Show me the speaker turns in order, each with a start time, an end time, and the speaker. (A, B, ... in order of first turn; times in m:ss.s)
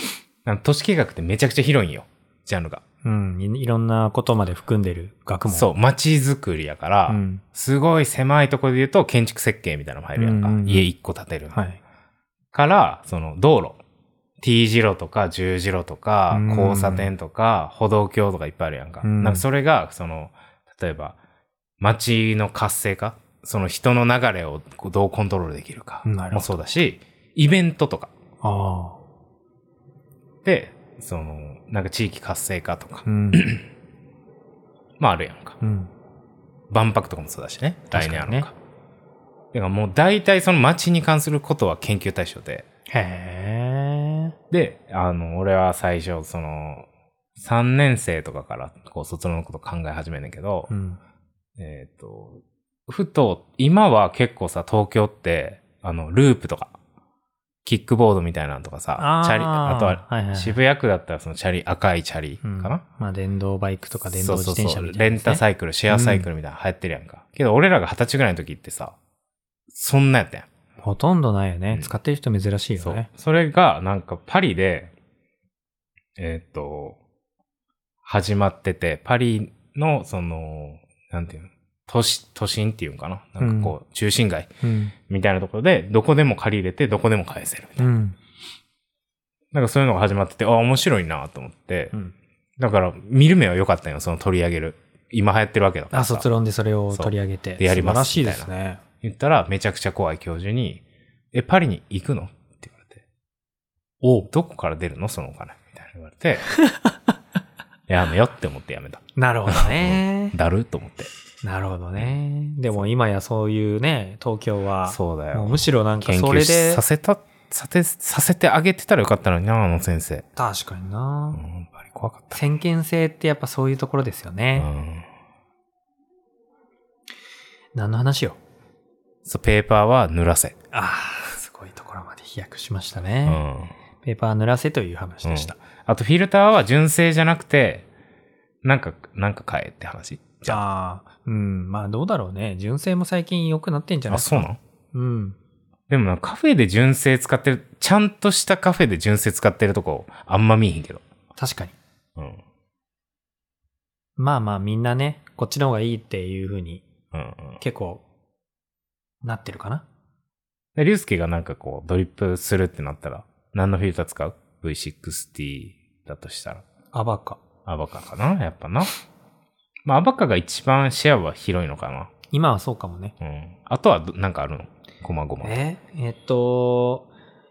0:00.4-0:02.8 A
0:03.0-0:05.7 B
0:05.5-0:11.6 A
0:07.1-0:07.4 B
0:10.2-0:10.9 B
0:11.5-0:11.8 B
0:12.5-0:13.8 A
0:14.4-0:21.2 A
0:16.3-0:17.1 B
0:19.0-0:19.4 B
0:21.8-0:28.1 A
0:26.0-0:26.8 B
0:28.4-0:29.0 B
0:30.4-0:33.7 A
0:33.1-0:33.5 B
0:35.0-0:35.6 A
0:35.6-0:35.9 B
0:36.7-0:38.6 A
0:37.9-0:38.5 B
0:39.5-0:42.6 A
0:42.9-0:44.3 B
0:44.5-0:50.7 A
0:50.7-0:51.0 B
0:51.6-0:56.7 A
0:57.6-1:02.8 A
0:59.0-1:00.6 B
1:02.4-1:06.3 B
1:04.1-1:09.0 A
1:09.7-1:10.5 A
1:10.8-1:13.1 B
1:12.8-1:14.9 A
1:16.2-1:17.0 A
1:18.0-1:24.5 A
1:23.4-1:23.8 B
1:24.6-1:24.9 B
1:25.1-1:27.9 A
1:27.8-1:28.2 B
1:29.5-1:31.9 A
1:32.6-1:36.3 A
1:35.9-1:38.8 B
1:36.9-1:38.5 A
1:39.0-1:43.0 A
1:44.0-1:44.3 B
1:44.3-1:46.5 A
1:46.6-1:47.0 B
1:47.9-1:51.1 A
1:49.2-1:50.4 B
1:51.4-1:56.8 B
1:54.9-2:00.3 A
2:00.4-2:01.4 B
2:01.4-2:02.4 A
2:02.3-2:04.7 B
2:04.6-2:05.1 A
2:07.8-2:08.4 B
2:09.2-2:10.6 A
2:10.7-2:13.4 B
2:13.3-2:13.7 A
2:14.0-2:15.6 B
2:15.2-2:17.9 A
2:18.6-2:20.6 A
2:20.5-2:25.4 B
2:24.1-2:24.6 A
2:25.9-2:31.0 A
2:31.4-2:31.8 B
2:32.2-2:32.4 A
2:34.2-2:36.8 B
2:37.1-2:37.6 A
2:37.6-2:38.0 B
2:39.2-2:39.8 B
2:40.8-2:46.6 A
2:46.9-2:47.4 B
2:47.7-2:48.9 A
2:49.9-2:52.1 A
2:52.3-2:53.2 B
2:53.2-2:55.6 A
2:55.4-2:57.1 B